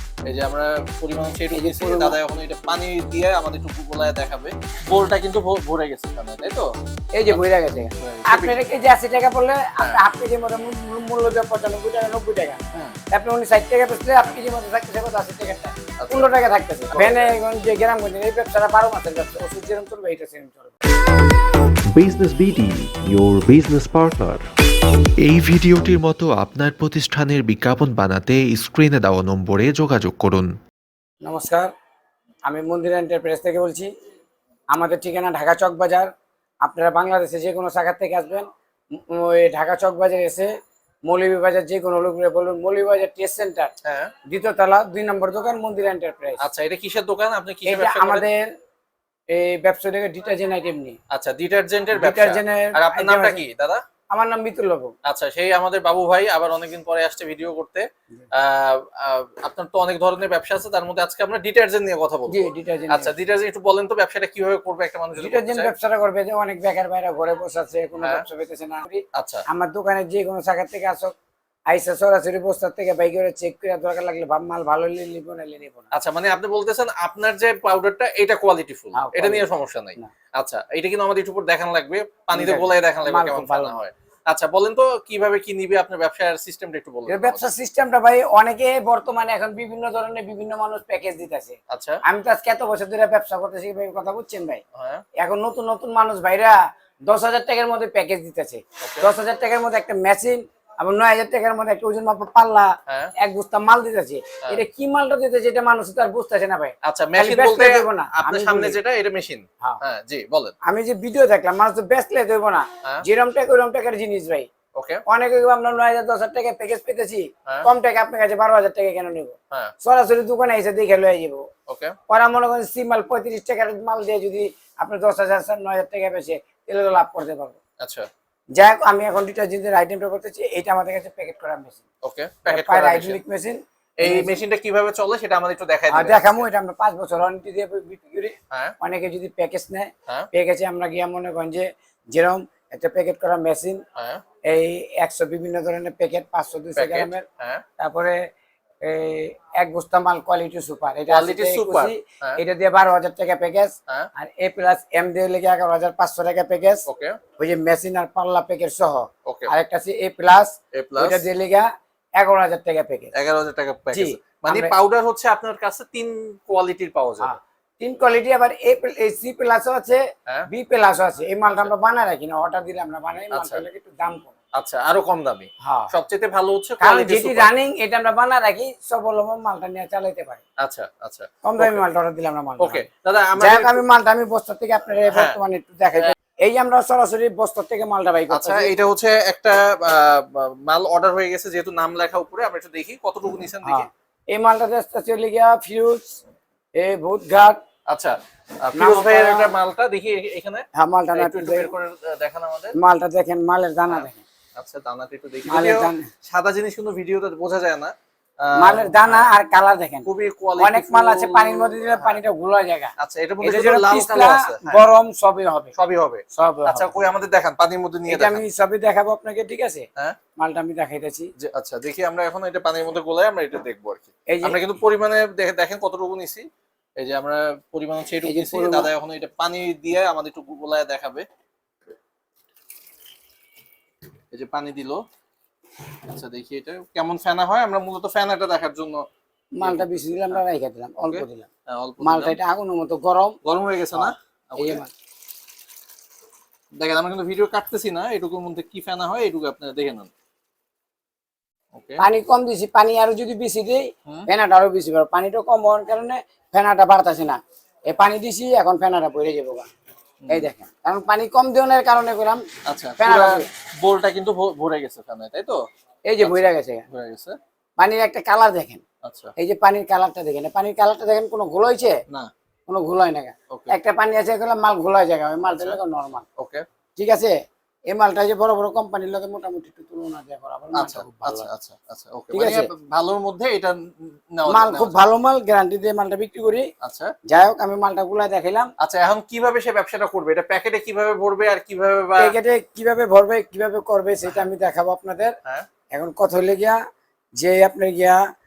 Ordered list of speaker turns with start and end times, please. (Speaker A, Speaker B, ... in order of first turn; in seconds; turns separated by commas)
Speaker A: 0.3-6.7, Speaker B: 1.5-2.2, Speaker B: 7.2-12.6, Speaker A: 8.0-8.5, Speaker B: 13.1-20.8, Speaker A: 16.0-16.3, Speaker A: 16.9-17.3, Speaker C: 21.9-24.4, Speaker D: 25.2-30.5, Speaker B: 31.2-31.7, Speaker B: 32.5-33.9, Speaker B: 34.7-36.1, Speaker B: 36.6-40.5, Speaker B: 41.1-43.7, Speaker A: 43.9-44.1, Speaker B: 44.3-46.4, Speaker A: 46.4-48.2, Speaker B: 47.6-48.4, Speaker B: 49.3-51.0, Speaker A: 51.1-53.8, Speaker B: 52.0-53.4, Speaker B: 54.1-54.9, Speaker A: 55.1-65.7, Speaker B: 62.3-63.1, Speaker B: 65.2-71.1, Speaker A: 69.2-69.4, Speaker B: 71.7-75.9, Speaker A: 75.9-87.5, Speaker B: 79.0-80.1, Speaker B: 82.3-83.8, Speaker B: 87.1-94.6, Speaker A: 91.7-92.0, Speaker A: 94.8-95.0, Speaker B: 95.2-108.8, Speaker A: 98.8-99.1, Speaker A: 106.8-110.5, Speaker B: 110.7-114.5, Speaker A: 114.8-115.0, Speaker B: 115.1-121.4, Speaker A: 121.7-122.0, Speaker B: 122.1-127.6, Speaker A: 127.8-128.1, Speaker B: 128.6-131.8, Speaker A: 132.0-133.2, Speaker B: 132.5-134.3, Speaker A: 134.0-136.4, Speaker B: 135.9-143.8, Speaker A: 144.0-144.2, Speaker B: 144.5-147.2, Speaker A: 146.8-147.6, Speaker B: 147.8-148.2, Speaker B: 148.8-156.8, Speaker A: 151.1-152.4, Speaker A: 156.9-157.2, Speaker B: 157.4-163.1, Speaker A: 159.2-159.5, Speaker A: 160.7-161.2, Speaker A: 163.1-167.3, Speaker B: 163.9-164.7, Speaker B: 167.2-174.3, Speaker A: 173.3-173.6, Speaker A: 174.6-177.5, Speaker B: 175.6-175.9, Speaker B: 176.8-180.4, Speaker A: 180.6-181.8, Speaker B: 181.4-182.9, Speaker A: 182.6-183.8, Speaker B: 183.4-188.7, Speaker A: 188.3-193.9, Speaker B: 193.6-196.2, Speaker B: 196.8-197.6, Speaker A: 197.9-202.8, Speaker B: 198.8-199.5, Speaker B: 200.8-201.7, Speaker B: 202.8-204.2, Speaker A: 203.9-209.3, Speaker B: 205.5-206.1, Speaker B: 208.6-210.1, Speaker A: 210.1-212.2, Speaker B: 210.6-215.7, Speaker A: 213.0-214.8, Speaker A: 215.8-218.4, Speaker B: 216.3-217.1, Speaker B: 218.1-219.8, Speaker B: 220.4-221.3, Speaker A: 221.4-226.5, Speaker B: 224.3-224.6, Speaker A: 227.0-231.3, Speaker B: 228.2-228.9, Speaker A: 234.3-235.0, Speaker A: 236.1-239.1, Speaker B: 239.6-241.5, Speaker A: 239.6-240.4, Speaker A: 241.1-242.4, Speaker B: 242.0-243.4, Speaker A: 243.4-244.8, Speaker B: 243.9-244.9, Speaker A: 246.8-250.1, Speaker A: 251.8-252.0, Speaker B: 252.0-259.7, Speaker B: 260.3-262.4, Speaker A: 262.7-265.6, Speaker B: 263.0-263.5, Speaker B: 266.1-266.9, Speaker A: 266.2-267.4, Speaker B: 267.8-268.8, Speaker A: 269.0-269.3, Speaker B: 269.4-272.0, Speaker B: 272.7-276.2, Speaker A: 275.5-275.8, Speaker A: 276.4-276.6, Speaker B: 277.0-277.3, Speaker B: 277.9-281.5, Speaker A: 280.8-285.0, Speaker B: 282.3-282.7, Speaker B: 284.5-286.7, Speaker A: 286.8-287.1, Speaker B: 287.3-288.7, Speaker A: 288.8-292.4, Speaker B: 292.2-295.4, Speaker B: 295.9-296.8, Speaker B: 297.4-298.2